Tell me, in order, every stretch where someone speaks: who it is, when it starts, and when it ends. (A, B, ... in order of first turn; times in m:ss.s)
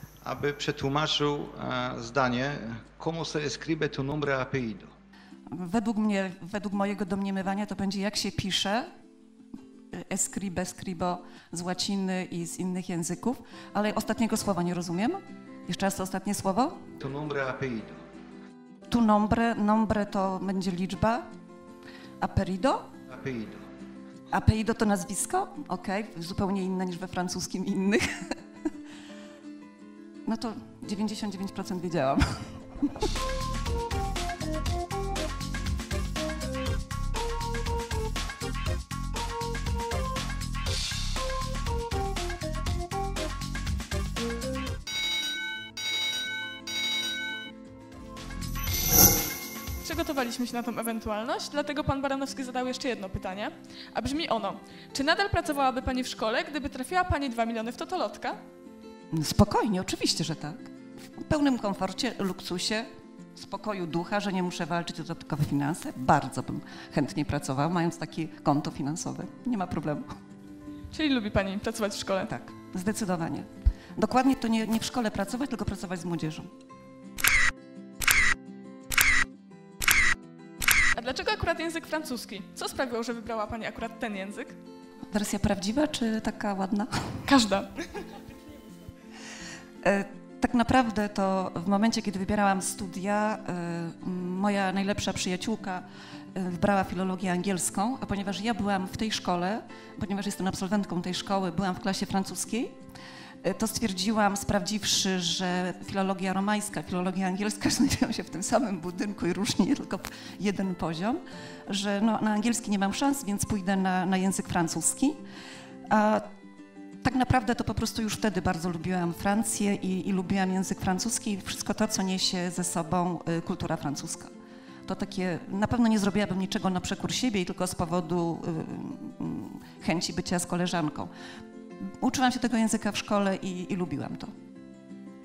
0:00.2-0:04.9 A
0:05.5-0:08.9 B
0:09.9-0:16.8 B
0:17.0-0:18.0 A
0:18.9-0:21.2 B
0:22.2-0:22.9 B
0:23.1-0:23.6 A
0:24.3-0:28.0 B
0:30.2-0:33.1 B
0:49.8-0:58.4 C
0:59.1-1:10.1 B
1:10.9-1:12.4 C
1:12.5-1:16.5 B
1:21.0-1:24.6 C
1:25.1-1:27.2 B
1:27.3-1:27.7 C
1:29.8-1:42.8 B
1:43.4-1:55.2 B
1:55.9-1:56.3 B
1:57.0-2:04.3 B
2:04.9-2:11.1 B
2:11.9-2:14.3 B